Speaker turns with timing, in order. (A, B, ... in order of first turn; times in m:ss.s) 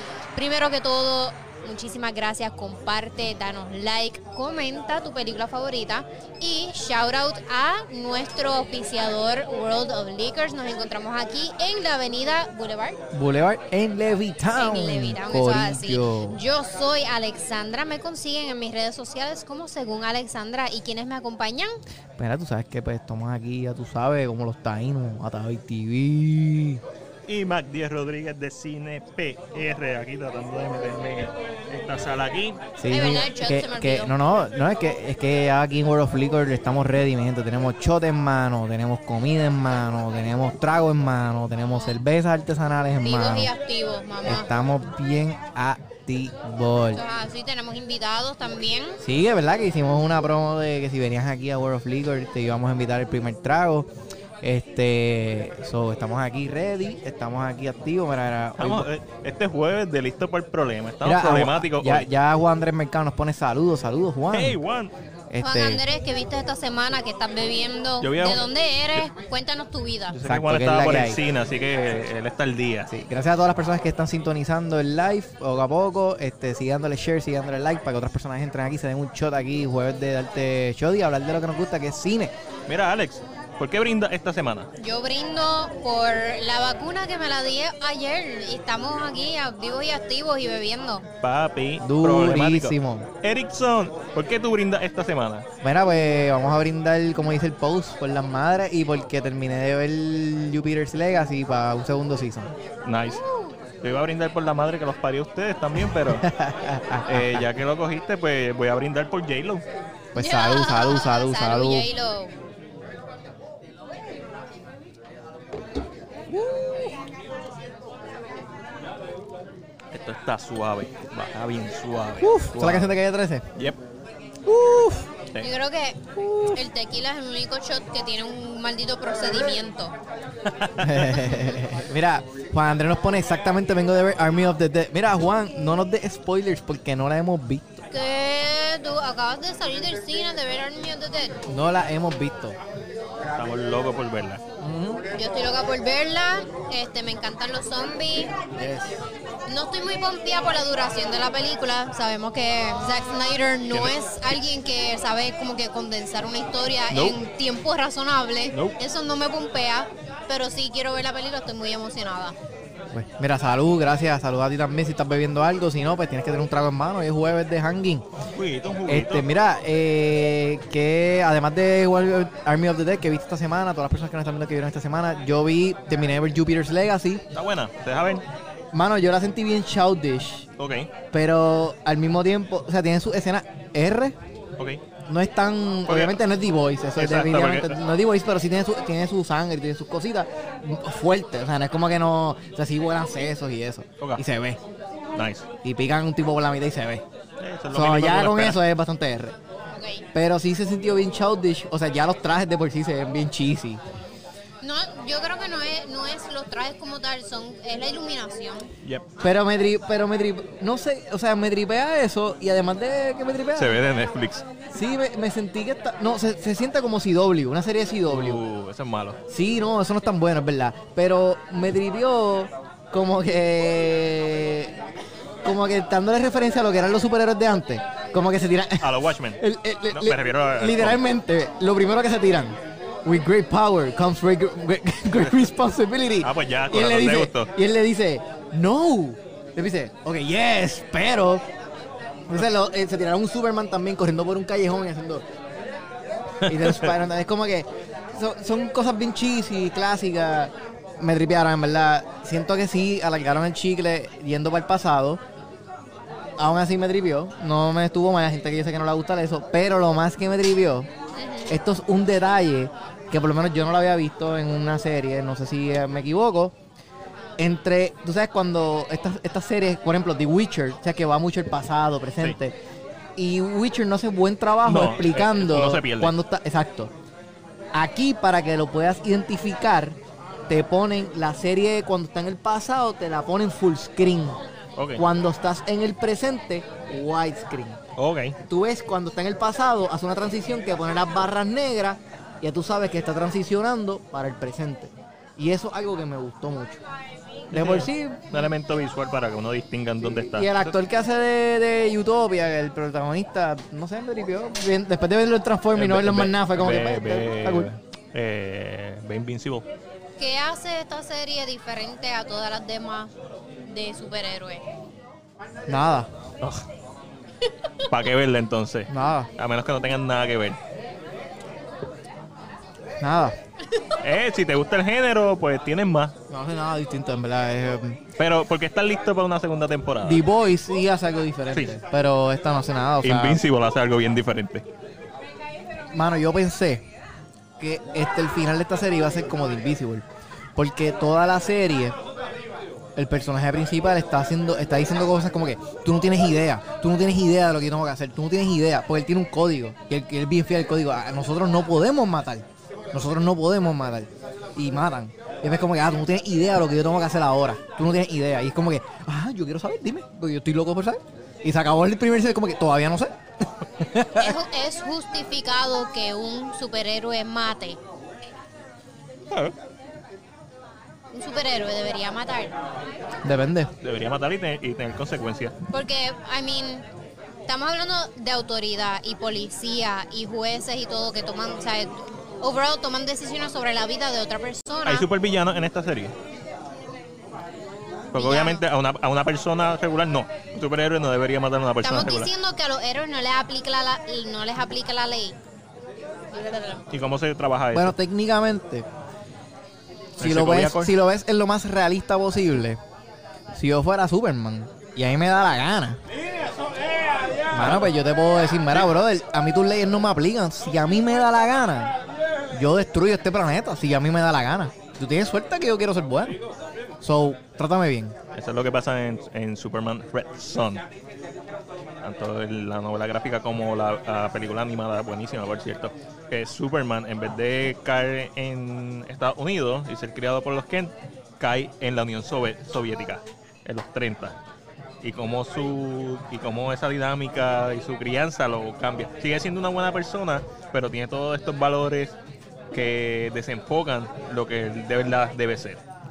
0:00.3-0:13.0 A
0:13.1-0:16.4 B
0:14.6-0:21.8 A
0:22.2-0:26.8 B
0:27.3-0:32.6 C
0:32.8-0:43.5 B
0:32.9-0:34.1 A
0:43.0-0:44.5 A
0:44.2-0:47.0 B
0:46.9-0:49.0 A
0:49.0-0:53.9 B
0:54.4-0:58.9 B
0:58.6-1:02.1 C
1:01.0-1:04.6 B
1:04.3-1:04.9 C
1:05.3-1:05.8 B
1:05.4-1:10.2 A
1:08.0-1:09.0 C
1:10.1-1:12.9 C
1:10.2-1:11.2 B
1:12.9-1:22.3 B
1:22.7-1:24.7 C
1:24.8-1:31.1 A
1:31.2-1:35.4 C
1:31.8-1:33.1 B
1:35.6-1:42.5 B
1:42.8-1:43.2 C
1:43.2-1:43.5 A
1:43.8-1:46.3 C
1:46.2-1:47.4 B
1:47.0-1:49.6 C
1:50.1-1:51.9 B
1:50.2-1:52.3 A
1:56.3-1:56.9 C
1:59.9-2:02.9 C
2:02.2-2:03.4 B
2:04.4-2:05.1 B
2:05.4-2:09.9 A
2:06.2-2:06.5 C
2:10.4-2:11.4 C
2:10.8-2:17.8 B
2:17.9-2:21.4 A
2:21.5-2:22.6 B
2:23.4-2:24.4 C
2:24.6-2:25.0 B
2:25.1-2:28.3 A
2:28.5-2:29.0 B
2:29.5-2:42.4 A
2:36.9-2:37.2 C
2:42.9-2:48.0 B
2:48.3-2:49.2 C
2:48.9-2:57.2 B
2:57.3-2:58.2 C
2:58.7-3:00.4 B
3:00.6-3:00.9 C
3:01.1-3:04.2 B
3:05.1-3:14.6 B
3:05.9-3:06.2 C
3:07.0-3:07.8 C
3:15.1-3:15.5 C
3:15.6-3:17.0 B
3:17.4-3:18.6 C
3:17.7-3:19.3 B
3:19.7-3:20.0 A
3:20.1-3:23.8 B
3:24.6-3:28.7 A
3:29.2-3:33.8 B
3:33.6-3:34.4 C
3:34.7-3:38.4 B
3:38.1-3:39.2 C
3:39.3-3:44.8 B
3:45.4-4:01.4 B
3:48.8-3:51.0 C
3:56.2-3:57.5 C
4:02.3-4:05.2 B
4:06.4-4:15.2 B
4:06.5-4:06.9 C
4:16.4-4:20.9 B
4:21.1-4:21.6 A
4:21.5-4:26.5 B
4:27.4-4:32.6 B
4:33.2-4:36.9 B
4:34.6-4:36.1 C
4:37.7-4:44.4 B
4:44.8-4:45.0 C
4:45.0-4:47.8 B
4:48.0-4:48.4 C
4:48.5-4:56.8 B
4:57.5-4:58.5 B
4:57.5-5:00.7 C
5:00.3-5:07.7 B
5:05.7-5:09.6 C
5:10.2-5:13.1 A
5:13.6-5:14.6 A
5:15.7-5:16.1 B
5:17.9-5:20.6 C
5:18.9-5:19.3 B
5:23.0-5:23.4 B
5:24.0-5:26.1 C
5:26.3-5:28.0 B
5:28.2-5:30.2 C
5:30.0-5:33.4 B
5:33.0-5:34.6 C
5:35.9-5:36.8 B
5:37.6-5:41.9 B
5:43.0-6:04.4 B
6:04.2-6:07.8 A
6:11.1-6:12.5 A
6:13.2-6:13.7 B
6:13.8-6:15.5 C
6:15.7-6:16.8 A
6:17.5-6:25.1 A
6:24.8-6:26.1 C
6:28.1-6:32.3 C
6:28.1-6:28.6 A
6:31.8-6:35.4 A
6:36.3-6:36.8 A
6:36.9-6:38.0 C
6:37.7-6:38.9 B
6:40.2-6:40.9 C
6:40.2-6:42.8 B
6:43.5-6:46.0 B
6:47.5-6:51.9 B
6:47.5-6:47.9 C
6:52.5-6:56.4 B
6:57.0-6:58.1 B
6:58.3-7:00.8 C
7:02.0-7:14.3 C
7:15.0-7:22.2 C
7:22.7-7:25.8 C